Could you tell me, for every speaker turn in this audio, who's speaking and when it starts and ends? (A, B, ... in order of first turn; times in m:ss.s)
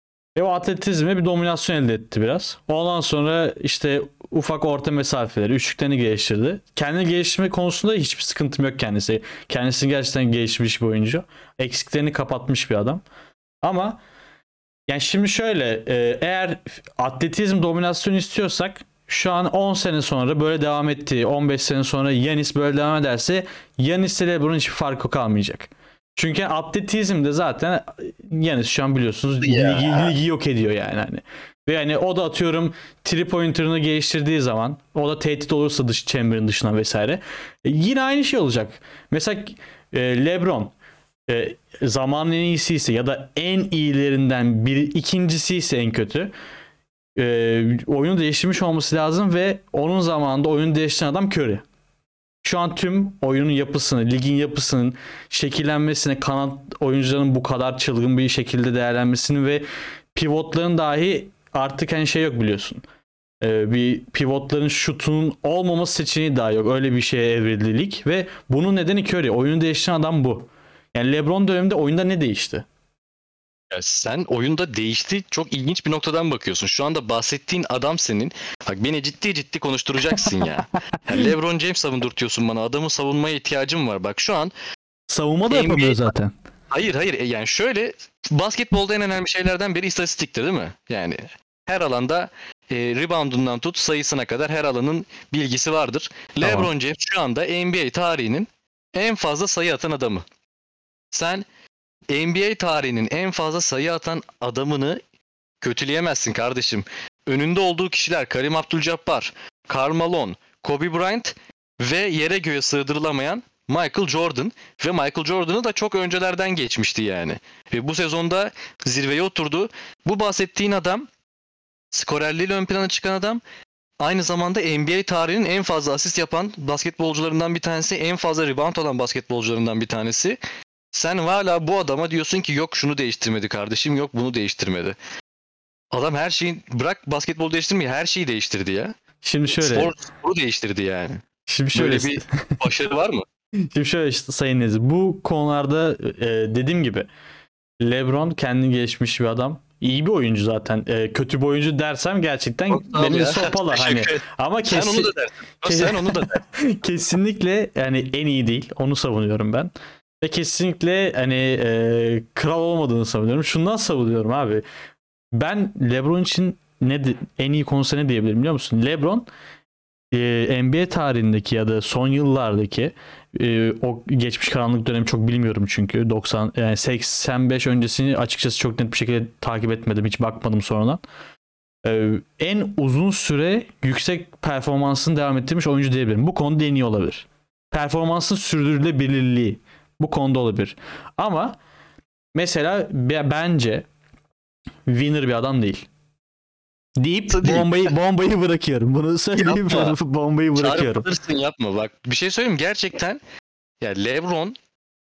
0:00.4-0:13.0 A
0:13.6-0:14.0 A
0:14.9-0:40.7 A
0:29.4-0:30.1 B
0:41.3-0:46.3 A
0:47.2-0:51.6 A
0:52.4-0:59.6 A
1:00.1-1:02.8 A
1:03.4-1:12.6 A
1:13.7-1:24.5 B
1:25.1-1:26.3 A
1:25.5-1:26.1 B
1:26.7-1:40.2 B
1:36.4-1:36.7 A
1:41.1-1:41.4 B
1:42.1-1:45.0 B
1:45.6-2:01.1 B
2:01.9-2:03.4 B
2:04.0-2:10.4 B
2:10.9-2:15.0 B
2:15.9-2:18.9 B
2:19.2-2:19.9 A
2:19.5-2:21.2 B
2:21.5-2:22.6 A
2:21.7-2:23.2 B
2:23.7-2:27.1 A
2:27.8-2:35.1 A
2:32.7-2:36.4 B
2:35.6-2:44.6 A
2:45.3-2:49.3 A
2:50.1-3:01.0 A
3:01.8-3:11.6 A
3:12.3-3:13.8 A
3:14.9-3:15.9 A
3:17.0-3:21.1 A
3:17.3-3:17.9 B
3:19.4-3:19.9 B
3:20.6-3:23.2 B
3:23.8-3:24.6 B